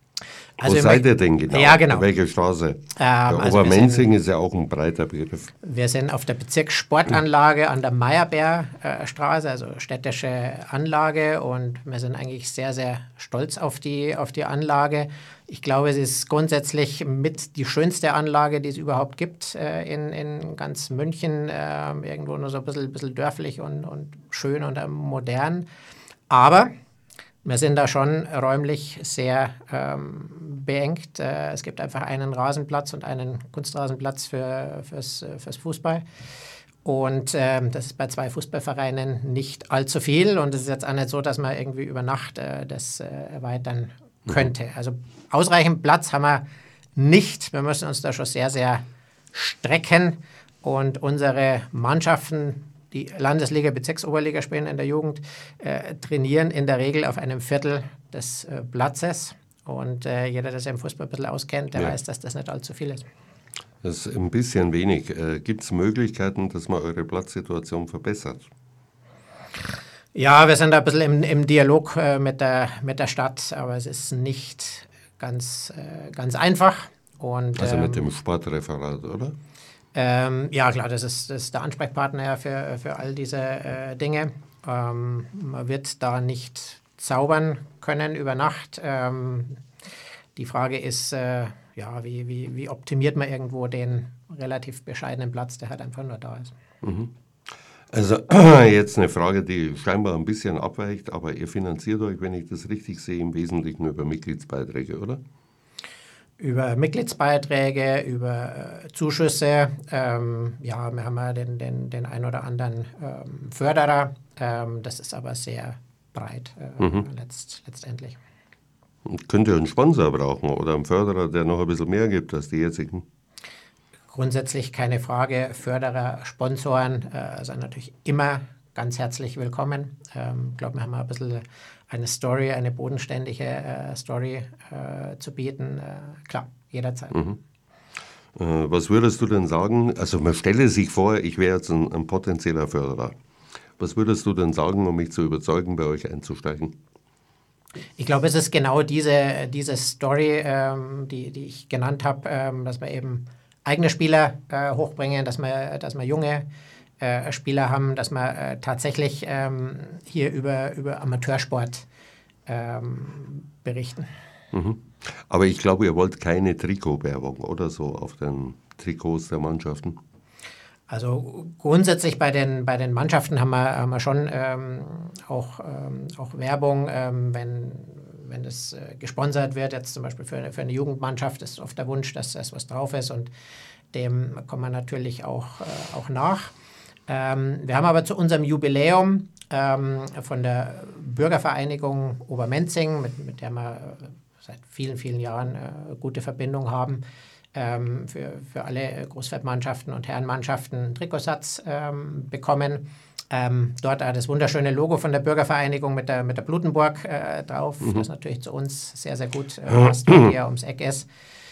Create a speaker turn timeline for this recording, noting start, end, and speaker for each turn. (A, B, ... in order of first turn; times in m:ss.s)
0:00.6-0:02.0 A
0:00.6-0:05.5 B
0:03.0-0:04.1 A
0:05.6-0:25.6 A
0:26.3-0:26.7 A
0:27.4-0:36.0 A
0:36.8-0:46.4 A
0:47.0-1:03.0 A
1:03.8-1:08.5 B
1:10.1-1:18.1 A
1:17.6-1:19.4 B
1:19.9-1:29.6 A
1:30.4-1:36.5 A
1:36.8-1:37.1 B
1:37.9-1:45.2 B
1:46.4-1:58.2 A
1:56.8-1:57.0 B
1:59.0-2:03.0 B
2:04.1-2:17.3 A
2:18.4-2:23.1 B
2:23.8-2:26.8 B
2:28.0-2:36.5 A
2:37.0-2:41.8 A
2:42.5-2:44.1 A
2:44.5-2:50.0 B
2:50.9-3:03.3 A
3:03.9-3:06.5 A
3:07.1-3:17.0 A
3:17.5-3:31.1 A